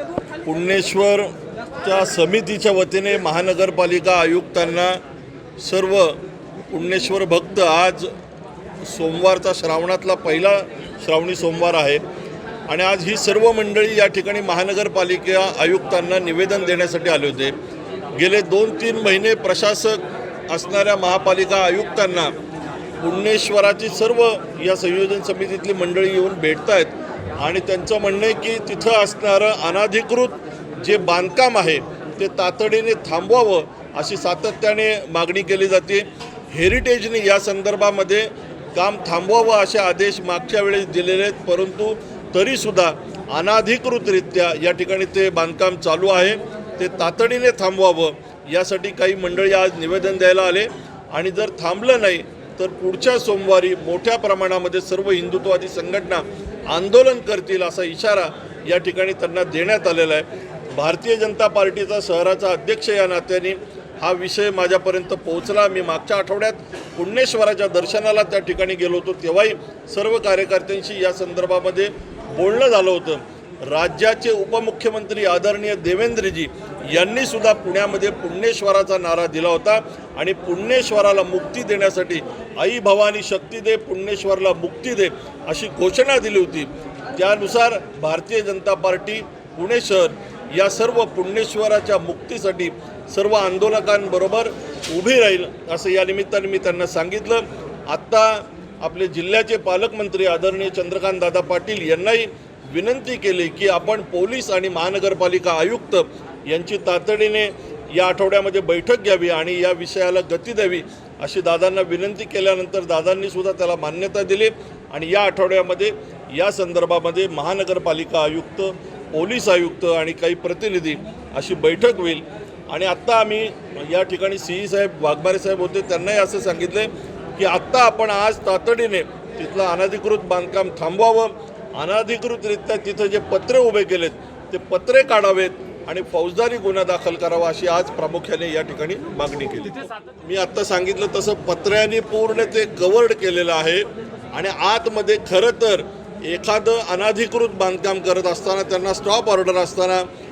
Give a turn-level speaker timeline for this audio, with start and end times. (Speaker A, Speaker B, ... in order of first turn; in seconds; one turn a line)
Speaker A: 0.4-5.0
Speaker A: 5.6-6.2
Speaker A: 6.7-8.1
Speaker A: 8.8-12.0
Speaker A: 12.7-17.5
Speaker A: 18.1-22.3
Speaker A: 23.0-150.1